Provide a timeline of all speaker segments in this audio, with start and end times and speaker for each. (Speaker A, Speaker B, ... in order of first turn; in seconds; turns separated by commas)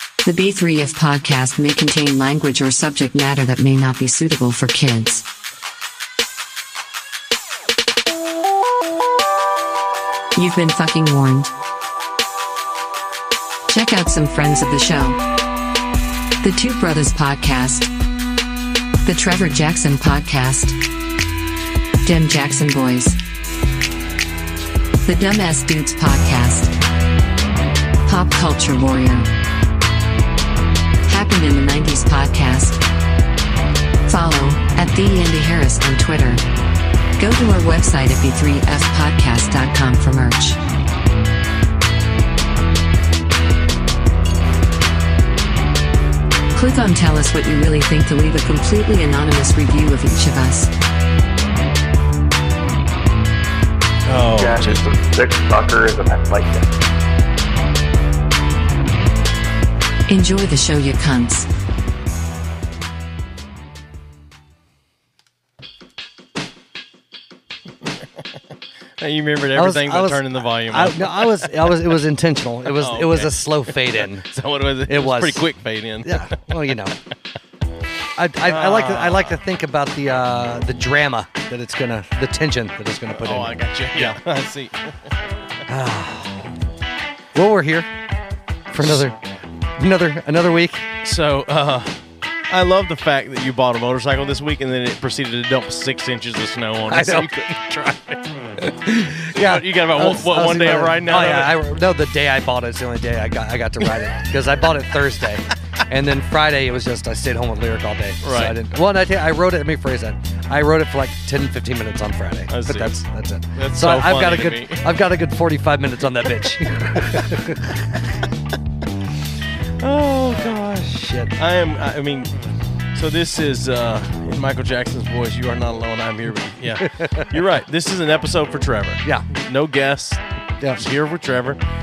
Speaker A: 0.2-5.2, Speaker A: 10.4-11.5, Speaker A: 13.7-15.2, Speaker A: 16.4-17.9, Speaker A: 19.0-20.8, Speaker A: 22.0-23.2, Speaker A: 25.1-26.7, Speaker A: 28.1-29.3, Speaker A: 31.1-32.8, Speaker A: 34.1-36.4, Speaker A: 37.2-40.6, Speaker A: 46.5-50.7, Speaker B: 54.1-54.8, Speaker C: 54.3-56.7, Speaker A: 60.1-61.5, Speaker B: 69.0-71.8, Speaker D: 69.5-74.3, Speaker B: 72.7-76.5, Speaker D: 74.9-75.5, Speaker D: 76.0-77.0, Speaker D: 78.2-84.2, Speaker B: 78.4-79.4, Speaker B: 83.1-85.1, Speaker D: 85.7-86.5, Speaker D: 87.3-87.9, Speaker D: 88.7-90.9, Speaker B: 91.0-98.3, Speaker D: 96.9-97.3, Speaker D: 98.6-118.0, Speaker B: 99.2-101.7, Speaker B: 108.2-108.6, Speaker B: 112.5-114.9, Speaker D: 119.8-121.3, Speaker B: 121.4-122.4, Speaker B: 122.9-131.6, Speaker D: 126.8-127.2, Speaker D: 130.6-130.8